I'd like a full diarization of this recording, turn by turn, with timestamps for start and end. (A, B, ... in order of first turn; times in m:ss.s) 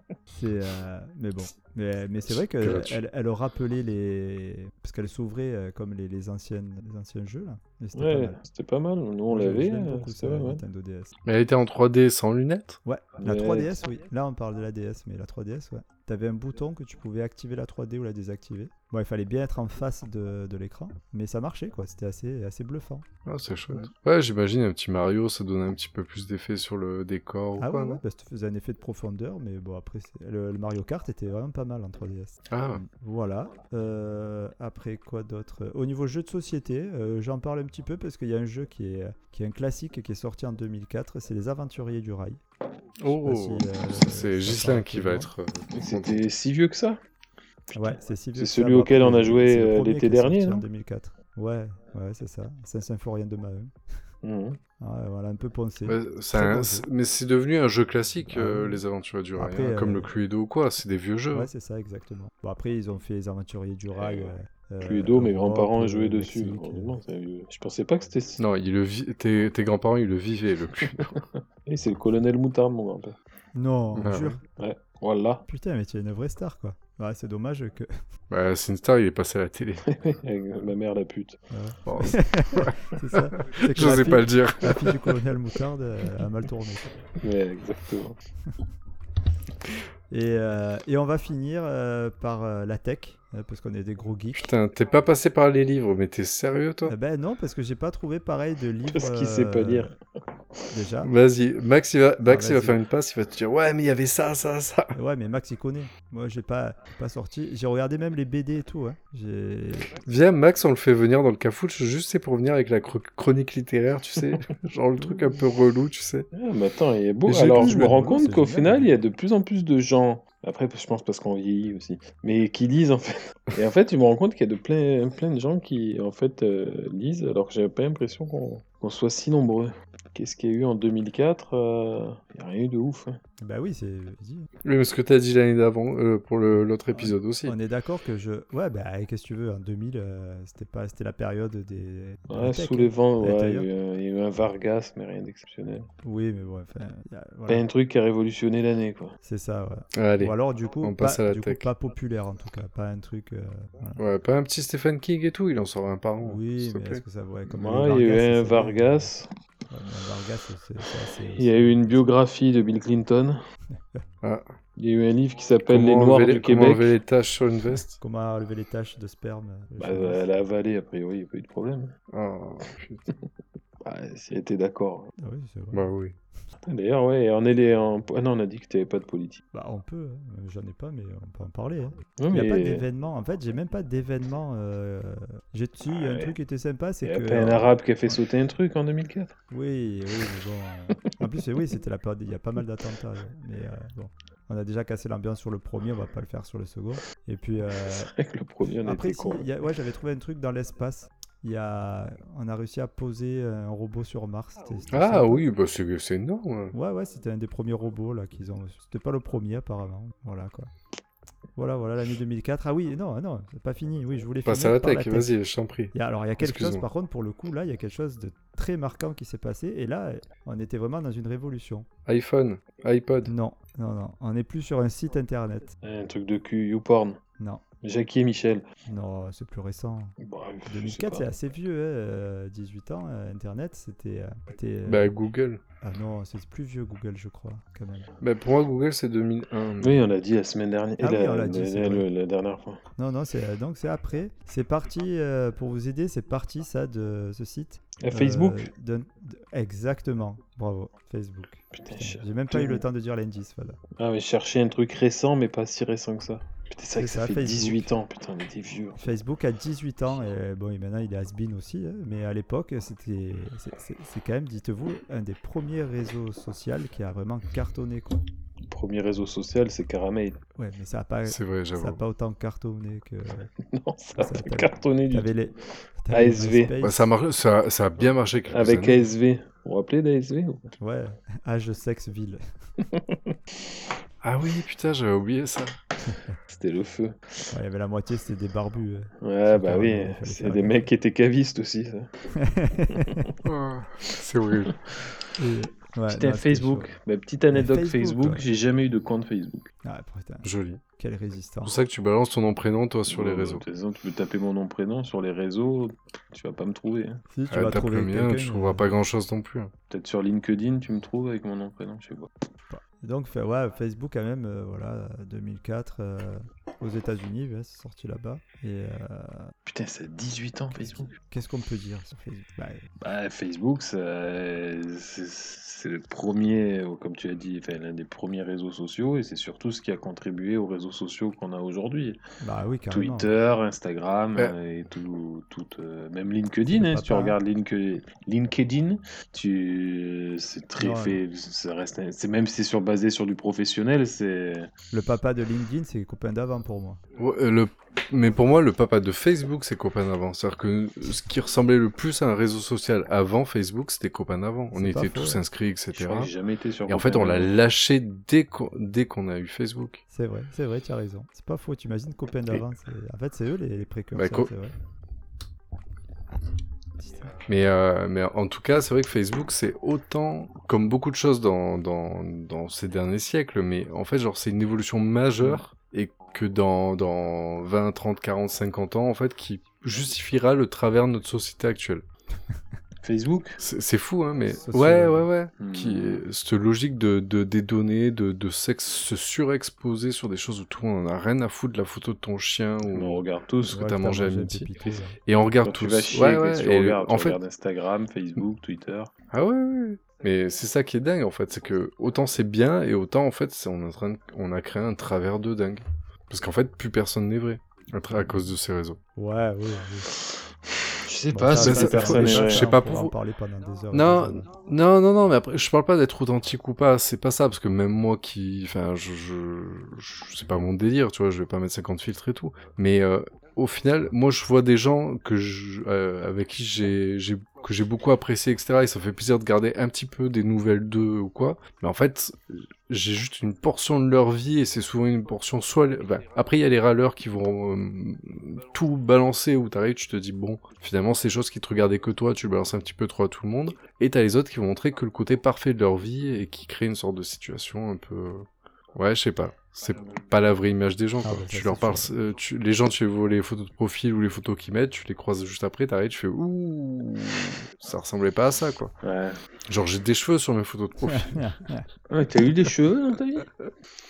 0:00.3-0:08.4 A
0:02.3-0:03.0 B
0:07.9-0:10.6 C
0:09.3-0:11.1 A
0:11.2-0:12.8 B
0:12.8-0:23.0 A
0:13.2-0:13.8 C
0:23.2-0:28.0 B
0:27.6-0:42.4 A
0:32.5-0:32.8 B
0:43.0-0:46.2 B
0:43.1-0:45.3 A
0:45.7-0:47.0 C
0:47.7-0:50.6 C
0:47.8-0:53.7 A
0:54.2-0:54.6 C
0:54.8-0:56.8 A
0:55.8-1:01.5 B
0:58.2-0:58.8 A
0:59.4-1:00.1 A
1:01.3-1:06.9 A
1:03.9-1:08.4 C
1:08.4-1:11.2 B
1:10.9-1:13.2 C
1:13.5-1:14.4 A
1:14.0-1:14.4 B
1:14.6-1:15.4 C
1:15.5-1:17.9 A
1:18.3-1:19.8 B
1:19.9-1:21.4 C
1:21.5-1:27.0 A
1:21.8-1:25.1 B
1:27.2-1:28.2 C
1:30.1-1:34.5 A
1:34.4-1:36.9 B
1:36.8-1:39.9 A
1:38.9-1:39.9 C
1:40.7-1:41.1 A
1:41.0-1:44.9 B
1:42.2-1:42.8 A
1:44.9-1:49.9 A
1:50.0-1:56.3 B
1:56.3-2:13.2 C
1:57.3-1:58.9 A
1:57.3-1:58.0 B
2:13.4-2:14.5 A
2:14.6-2:17.5 B
2:16.9-2:23.7 A
2:22.3-2:25.9 C
2:26.0-2:27.6 A
2:27.5-2:29.2 C
2:29.2-2:34.0 A
2:30.0-2:31.6 B
2:34.0-2:37.0 B
2:36.2-2:39.1 A
2:37.5-2:39.3 C
2:39.7-2:42.1 A
2:41.4-2:43.4 C
2:43.7-2:44.0 A
2:44.2-2:44.5 B
2:44.8-2:46.9 C
2:45.7-2:48.0 B
2:48.0-2:50.2 A
2:49.8-2:51.9 C
2:52.1-2:53.0 B
2:53.8-2:55.1 C
2:55.2-2:55.8 A
2:55.7-2:56.1 B
2:56.6-2:59.4 C
2:59.5-3:07.7 A
3:02.2-3:02.8 C
3:05.9-3:06.3 C
3:07.0-3:09.4 C
3:09.5-3:18.1 A
3:17.7-3:19.5 C
3:18.8-3:25.4 A
3:24.9-3:26.7 B
3:26.7-3:30.7 A
3:31.6-3:35.3 A
3:34.4-3:36.8 B
3:35.9-3:41.9 A
3:42.0-3:43.3 B
3:43.2-3:45.7 A
3:45.8-3:47.2 C
3:47.8-3:48.6 C
3:48.8-3:55.1 A
3:50.2-3:51.3 C
3:54.8-3:55.6 B
3:55.8-3:58.1 A
3:58.2-4:00.0 B
3:59.8-4:02.8 C
4:01.0-4:02.0 A
4:03.0-4:13.8 A
4:08.0-4:08.7 C
4:11.7-4:12.8 C
4:14.0-4:19.1 C
4:17.0-4:17.9 A
4:19.0-4:28.2 A
4:28.7-4:30.4 C
4:30.6-4:33.5 A
4:31.2-4:32.0 B
4:33.6-4:35.3 C
4:34.2-4:37.1 A
4:36.1-4:36.7 C
4:36.8-4:39.1 B
4:38.5-4:40.7 C
4:40.8-4:42.4 A
4:42.8-4:43.3 C
4:44.2-4:45.8 B
4:46.0-4:46.4 A
4:46.5-4:47.4 C
4:47.5-4:50.9 A
4:49.2-4:52.1 C
4:52.3-4:53.2 A
4:52.9-4:53.3 C
4:53.4-4:54.7 B
4:55.4-4:56.9 A
4:56.1-4:59.6 C
4:57.5-4:58.4 A
4:59.8-5:00.5 A
5:00.4-5:00.8 B
5:01.0-5:01.7 A
5:01.6-5:03.6 B
5:03.1-5:07.2 C
5:07.3-5:08.9 A
5:07.5-5:09.7 B
5:09.9-5:12.3 C
5:12.7-5:19.5 A
5:19.6-5:21.1 C
5:21.1-5:22.9 A
5:23.0-5:32.2 C
5:32.4-5:33.3 A
5:32.9-5:44.7 C
5:36.7-5:37.4 A
5:40.8-5:41.2 A
5:44.9-5:47.0 A
5:47.2-5:56.3 B
5:54.7-5:55.4 A
5:55.9-5:57.5 C
5:56.9-6:00.0 B
6:00.1-6:04.7 A
6:04.1-6:04.5 B
6:07.0-6:07.3 A
6:07.4-6:22.0 B
6:23.0-6:23.6 C
6:23.6-6:34.7 B
6:24.6-6:25.3 A
6:25.6-6:26.2 C
6:32.9-6:33.8 C
6:33.7-6:35.2 A
6:35.2-6:37.4 B
6:35.6-6:39.1 C
6:39.3-6:49.0 B
6:49.2-6:50.1 A
6:51.0-6:52.7 C
6:51.3-6:54.5 A
6:51.6-6:53.1 B
6:53.9-7:38.9 B
7:31.2-7:32.1 A
7:39.0-7:39.4 C
7:39.7-7:41.5 B
7:41.0-7:41.8 A
7:42.1-7:43.5 C